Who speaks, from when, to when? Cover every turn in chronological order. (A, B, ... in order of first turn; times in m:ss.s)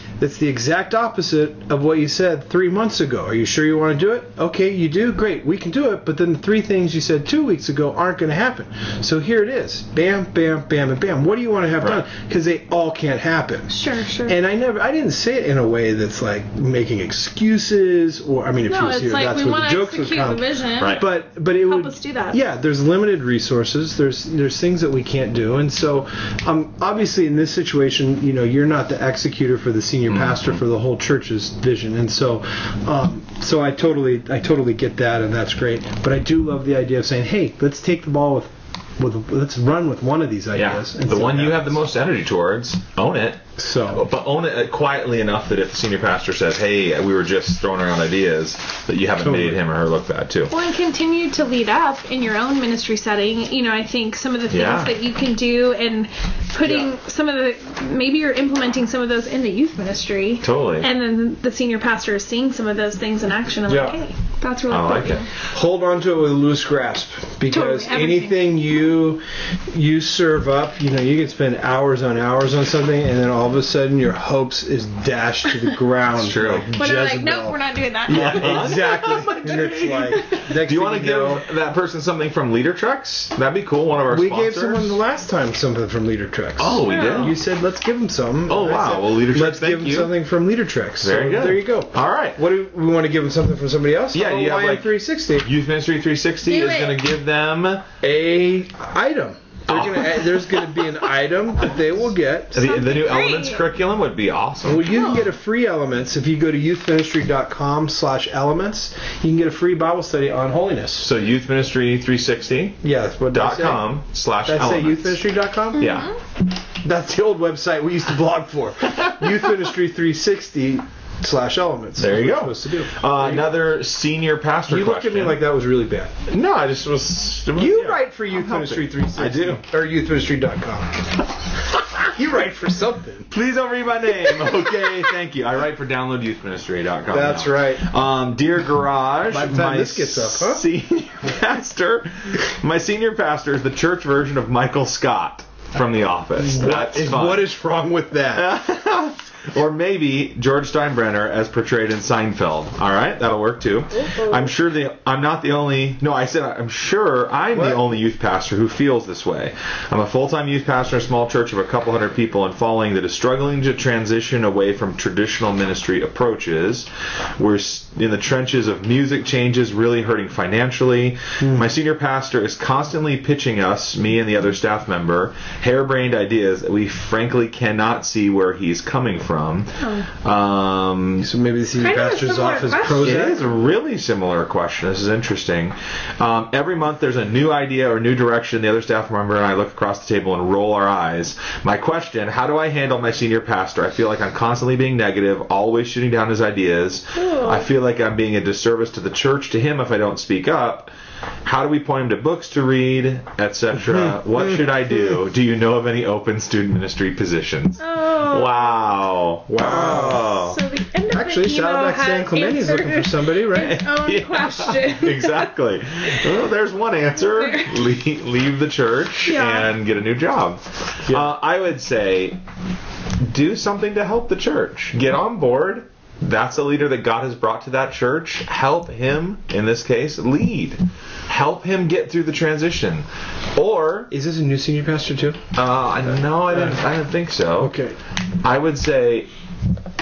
0:00.2-0:13.7 A
0:13.7-0:14.4 B
0:14.3-0:41.8 A
0:18.7-0:22.4 B
0:30.1-0:30.6 C
0:40.6-0:50.5 C
0:43.6-0:44.1 A
0:49.2-0:49.6 A
0:50.5-1:05.2 B
0:54.5-0:55.0 C
0:56.6-0:56.9 A
1:00.4-1:00.9 C
1:03.7-1:04.0 A
1:04.7-1:05.3 C
1:05.5-1:21.4 A
1:07.5-1:08.6 B
1:16.1-1:16.7 C
1:16.8-1:18.6 B
1:18.1-1:25.0 C
1:24.1-1:35.5 A
1:26.6-1:27.4 C
1:26.8-1:27.3 B
1:28.5-1:30.1 C
1:31.0-1:32.4 C
1:34.1-1:37.9 C
1:36.4-1:37.0 B
1:38.0-1:42.6 A
1:39.7-1:40.9 C
1:42.5-1:45.0 C
1:42.6-1:43.6 B
1:44.6-1:51.1 A
1:44.8-1:45.3 B
1:51.0-1:56.1 C
1:52.8-1:56.0 A
1:55.8-1:56.2 B
1:56.8-2:03.5 A
2:02.0-2:05.4 C
2:04.7-2:06.1 A
2:06.3-2:09.6 C
2:07.6-2:11.1 A
2:12.1-2:13.3 A
2:13.3-2:27.5 C
2:17.1-2:17.9 A
2:19.3-2:20.7 A
2:26.4-2:28.6 A
2:28.3-3:01.3 C
2:33.9-2:34.5 B
2:37.5-2:37.8 A
2:51.4-2:51.7 A
2:59.8-3:00.1 B
3:01.2-3:03.5 A
3:01.8-3:03.4 B
3:02.9-3:20.9 C
3:17.2-3:17.7 B
3:21.4-3:30.6 C
3:24.0-3:24.4 A
3:27.8-3:28.9 B
3:29.6-3:30.3 A
3:30.0-3:35.5 B
3:31.1-3:33.9 A
3:33.6-3:42.4 C
3:37.2-3:37.8 B
3:39.3-3:39.7 B
3:43.2-3:54.1 C
3:54.1-3:55.4 A
3:55.6-3:57.7 C
3:57.6-3:58.0 A
3:58.4-3:59.3 C